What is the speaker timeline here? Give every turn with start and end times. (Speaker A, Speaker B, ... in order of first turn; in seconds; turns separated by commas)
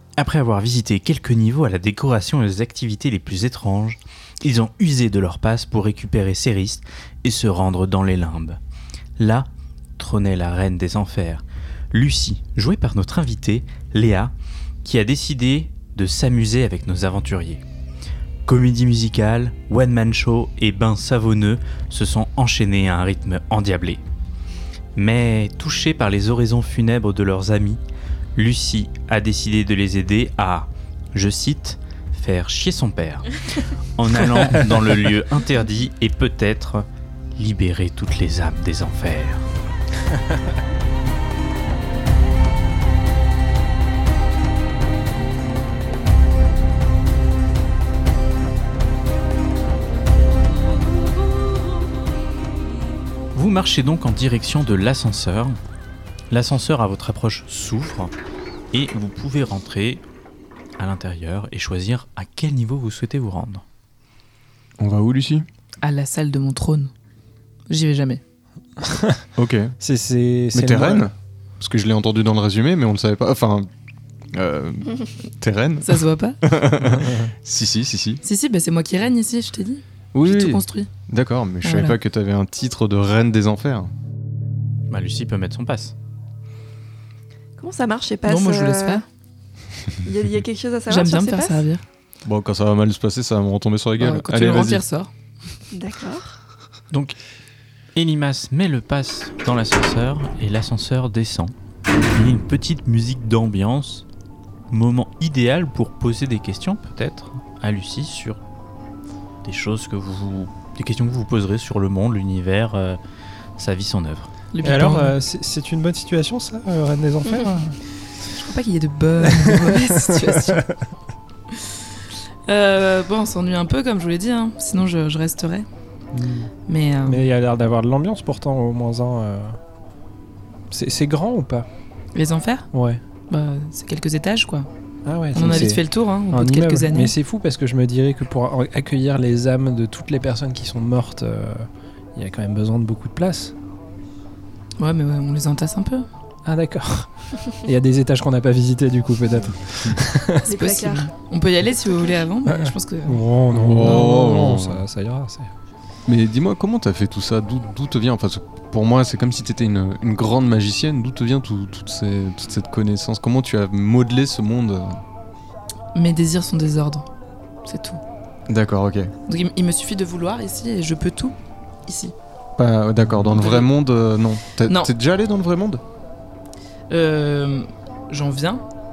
Speaker A: 0.2-8.6, Speaker A: 9.2-17.6, Speaker A: 18.5-24.0, Speaker A: 25.0-27.8, Speaker A: 28.4-33.4, Speaker A: 34.0-39.5, Speaker A: 53.3-55.6, Speaker A: 56.3-58.1, Speaker A: 58.7-60.0, Speaker A: 60.8-63.6, Speaker B: 64.8-65.5, Speaker C: 65.8-66.9, Speaker C: 67.7-68.2, Speaker D: 68.8-69.2, Speaker B: 69.4-69.8, Speaker D: 69.8-71.1, Speaker B: 70.5-73.7, Speaker B: 74.3-78.2, Speaker C: 75.8-76.4, Speaker D: 76.9-77.3, Speaker C: 78.2-80.9, Speaker B: 80.1-83.9, Speaker C: 81.6-82.0, Speaker A: 84.9-85.9, Speaker E: 87.6-89.0, Speaker C: 88.3-89.0, Speaker E: 90.0-91.6, Speaker C: 90.9-91.8, Speaker B: 92.2-94.8, Speaker C: 94.0-95.1, Speaker E: 95.7-96.4, Speaker A: 96.9-97.2, Speaker A: 98.0-101.5, Speaker A: 102.1-104.0, Speaker A: 104.7-108.4, Speaker A: 109.4-113.0, Speaker A: 113.6-114.3, Speaker C: 114.5-115.2, Speaker D: 114.6-117.8, Speaker C: 118.3-120.7, Speaker D: 119.2-120.8, Speaker C: 122.5-125.7, Speaker D: 126.1-126.5, Speaker C: 126.7-127.2, Speaker D: 127.0-129.6, Speaker D: 130.7-131.7, Speaker C: 132.2-132.7, Speaker D: 132.7-133.0, Speaker C: 133.3-134.7, Speaker D: 135.1-143.5, Speaker C: 135.3-137.1, Speaker C: 144.8-146.1, Speaker D: 146.5-150.5, Speaker E: 150.4-151.1, Speaker C: 150.4-153.2, Speaker E: 151.8-152.2, Speaker D: 152.5-155.5, Speaker B: 153.5-154.8, Speaker B: 156.1-165.0, Speaker C: 165.9-167.1, Speaker C: 167.7-168.0, Speaker B: 168.5-169.1, Speaker C: 169.3-172.1, Speaker B: 172.6-175.8, Speaker C: 173.4-173.7, Speaker C: 174.7-174.9, Speaker C: 176.9-178.6